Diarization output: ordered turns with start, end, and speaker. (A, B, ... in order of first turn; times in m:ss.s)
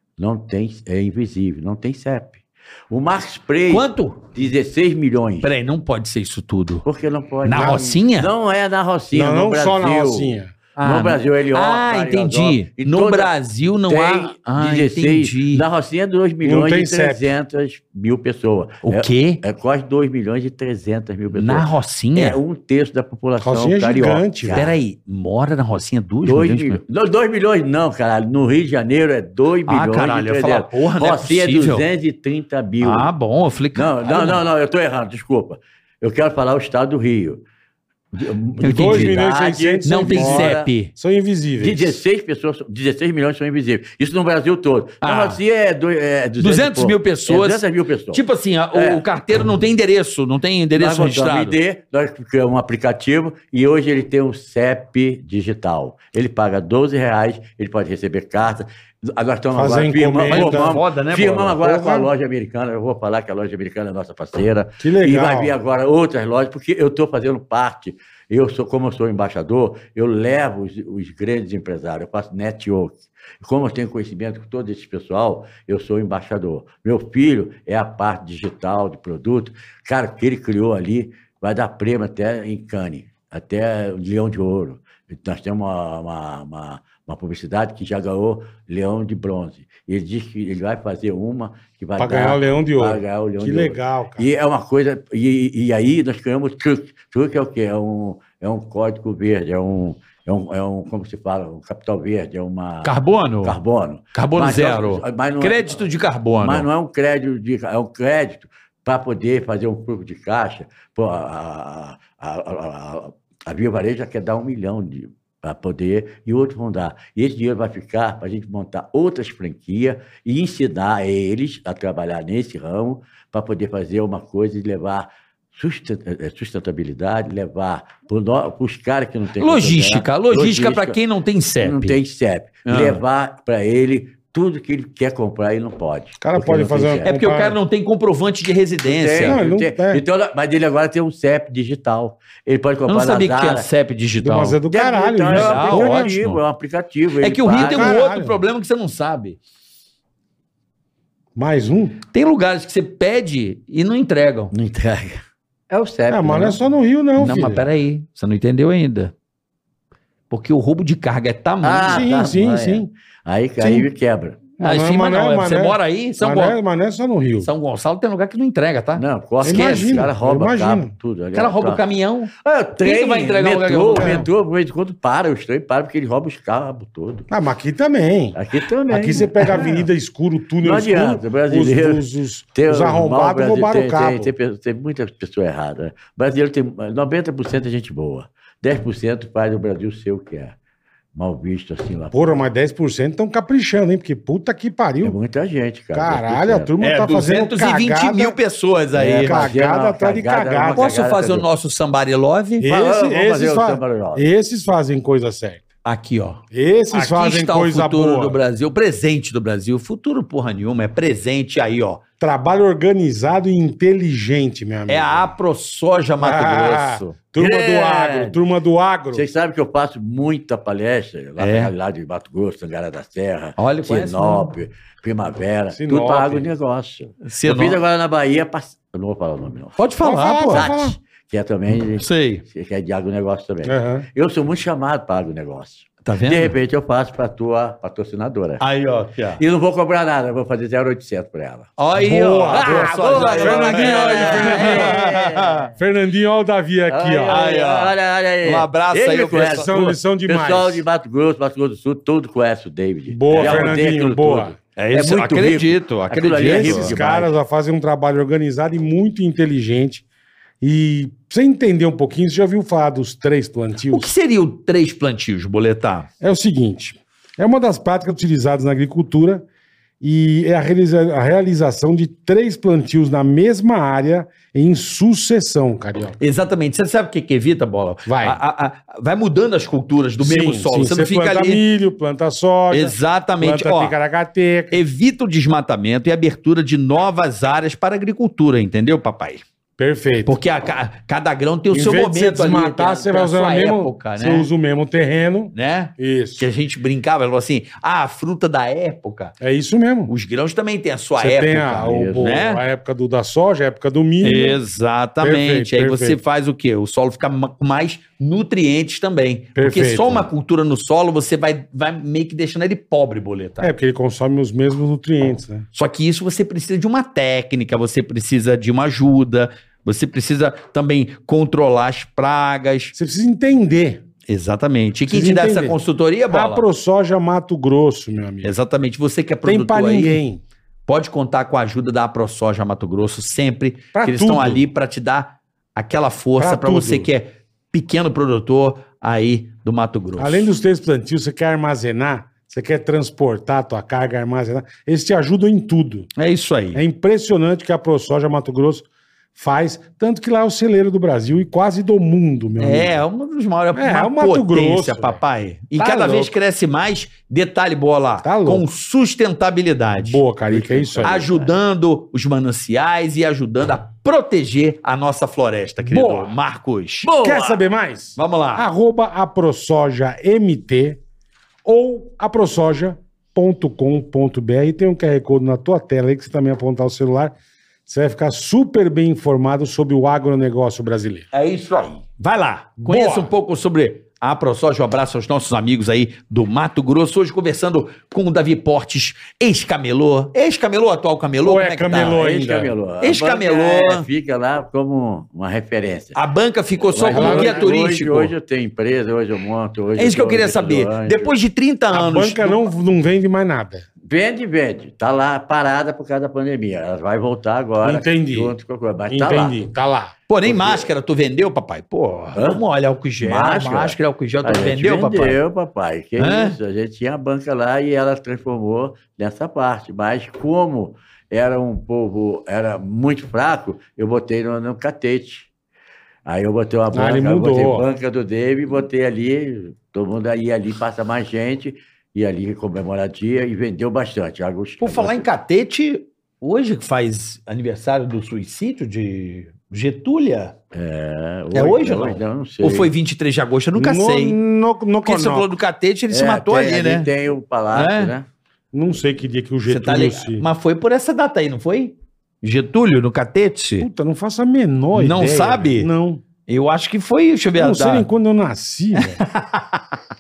0:00.2-0:05.5 A
0:03.7-0:04.2 B
0:05.4-0:06.8 B
0:06.8-0:13.3 A
0:07.4-0:08.3 B
0:07.5-0:07.8 C
0:09.1-0:10.5 C
0:10.8-0:15.6 B
0:13.9-0:24.8 A
0:16.4-0:17.3 C
0:18.8-0:19.4 B
0:21.3-0:22.4 B
0:23.4-0:24.6 C
0:24.5-0:26.8 B
0:26.2-0:33.1 A
0:29.7-0:31.8 B
0:32.8-0:34.4 B
0:33.7-0:37.4 A
0:38.1-0:40.7 A
0:38.6-0:41.9 C
0:38.6-0:39.2 B
0:39.8-0:40.9 B
0:41.6-0:48.2 A
0:45.0-0:45.4 B
0:46.4-0:51.6 B
0:48.7-0:49.0 A
0:50.7-1:45.8 A
0:59.5-1:00.8 C
1:00.3-1:01.6 B
1:01.6-1:02.1 C
1:04.8-1:05.5 C
1:32.0-1:34.3 C
1:42.8-1:43.6 B
1:44.1-1:46.7 B
1:46.4-2:11.0 A
2:09.4-2:12.0 B
2:11.6-2:17.1 A
2:12.6-2:13.0 B
2:16.2-2:17.6 C
2:17.0-2:19.4 B
2:18.8-2:23.7 A
2:19.2-2:20.0 C
2:22.9-2:24.6 B
2:24.2-2:26.2 C
2:24.7-2:28.0 A
2:25.3-2:26.4 B
2:27.2-2:29.4 B
2:27.6-2:28.4 C
2:31.4-2:32.0 C
2:32.1-2:34.5 B
2:34.5-2:36.6 A
2:36.1-2:37.7 C
2:37.2-2:39.1 B
2:40.3-2:42.0 B
2:41.6-2:44.4 A
2:41.9-2:42.9 C
2:43.6-2:43.9 C
2:44.6-2:47.5 C
2:44.6-2:46.6 B
2:47.4-2:50.1 B
2:49.0-2:51.8 A
2:49.4-2:50.9 C
2:51.3-2:52.3 B
2:52.4-2:57.3 A
2:52.8-2:54.2 B
2:54.0-2:54.3 C
2:57.3-2:58.4 C
2:58.3-2:59.8 A
2:58.9-3:04.3 C
3:00.6-3:10.6 A
3:11.1-3:12.4 A
3:12.1-3:15.2 C
3:15.0-3:16.7 A
3:15.9-3:18.4 C
3:16.8-3:19.4 B
3:18.9-3:21.4 A
3:19.2-3:20.9 C
3:20.7-3:22.7 B
3:22.6-3:25.6 C
3:22.6-3:24.3 A
3:25.8-3:26.4 B
3:26.5-3:28.4 C
3:26.9-3:32.0 B
3:32.2-3:35.3 C
3:34.9-3:37.1 B
3:36.2-3:39.2 C
3:37.4-3:38.4 A
3:39.1-3:49.8 A
3:41.4-3:41.7 B
3:43.6-3:44.5 B
3:45.7-3:46.5 C
3:47.2-3:47.8 B
3:49.8-3:50.7 B
3:50.0-3:51.0 C
3:50.5-3:58.6 A
3:52.0-3:52.4 B
3:53.6-3:54.1 C
3:56.0-3:56.5 B
3:58.6-3:59.4 B
3:59.4-4:01.7 A
4:01.8-4:05.7 B
4:01.9-4:05.1 C
4:02.5-4:05.7 A
4:05.7-4:07.4 C
4:06.9-4:17.3 A
4:07.3-4:09.8 B
4:09.3-4:10.8 C
4:13.1-4:14.5 C
4:13.3-4:13.7 B
4:14.8-4:17.0 B
4:16.4-4:20.0 C
4:20.6-4:24.1 C
4:23.9-4:26.1 B
4:26.2-4:29.4 C
4:30.0-4:36.2 C
4:36.2-4:41.6 B
4:38.0-4:38.4 C
4:40.2-4:44.8 C
4:42.7-4:43.9 B
4:44.7-4:49.4 B
4:49.8-4:50.4 C
4:50.2-4:54.5 B
4:51.7-4:56.5 C
4:55.5-4:59.3 B
4:59.4-5:00.1 C
5:00.1-5:02.6 B
5:01.2-5:04.6 C
5:01.8-5:02.4 A
5:04.2-5:13.7 B
5:05.2-5:06.2 C
5:09.6-5:10.3 C
5:13.6-5:15.6 C
5:15.7-5:22.9 B
5:22.9-5:24.0 C
5:24.3-5:26.6 B
5:25.1-5:25.8 C
5:26.3-5:28.5 C
5:28.4-5:30.2 B
5:29.4-5:30.4 C
5:30.9-5:40.5 B
5:33.9-5:34.6 C
5:36.4-5:37.1 C
5:40.2-5:46.1 C
5:46.2-5:46.8 B
5:46.7-5:53.0 C
5:52.6-6:07.1 B
5:53.7-5:55.2 C
5:55.8-5:56.3 C
5:58.2-5:58.7 C
6:00.0-6:01.3 C
6:00.5-6:01.5 A
6:05.8-6:06.3 C
6:07.0-6:07.5 A
6:07.1-6:11.0 C
6:08.2-6:08.7 B
6:11.6-6:17.3 C
6:17.9-6:21.3 C
6:21.3-6:32.2 B
6:22.8-6:23.3 C
6:31.4-6:32.7 C
6:31.9-6:36.2 A
6:33.0-6:34.0 B
6:36.1-6:38.3 B
6:36.9-6:41.3 A
6:37.1-6:37.7 C
6:40.0-6:42.6 B
6:41.9-6:43.8 C
6:44.1-6:49.6 A
6:47.8-6:48.6 C
6:49.1-6:50.1 C
6:50.3-6:55.4 B
6:50.4-6:50.9 A
6:52.3-6:52.6 A
6:53.2-7:05.5 A
6:56.2-6:56.6 B
7:06.2-7:15.3 A
7:06.9-7:07.8 C
7:14.8-7:20.5 B
7:20.7-7:22.9 A
7:21.5-7:24.4 B
7:23.7-7:25.5 C
7:25.0-7:27.1 B
7:26.1-7:28.3 A
7:27.7-7:28.1 B
7:28.7-7:30.4 C
7:29.7-7:33.9 B
7:33.8-7:36.2 C
7:34.9-7:35.9 B
7:36.5-7:38.1 B
7:37.6-7:39.2 C
7:39.0-7:40.0 B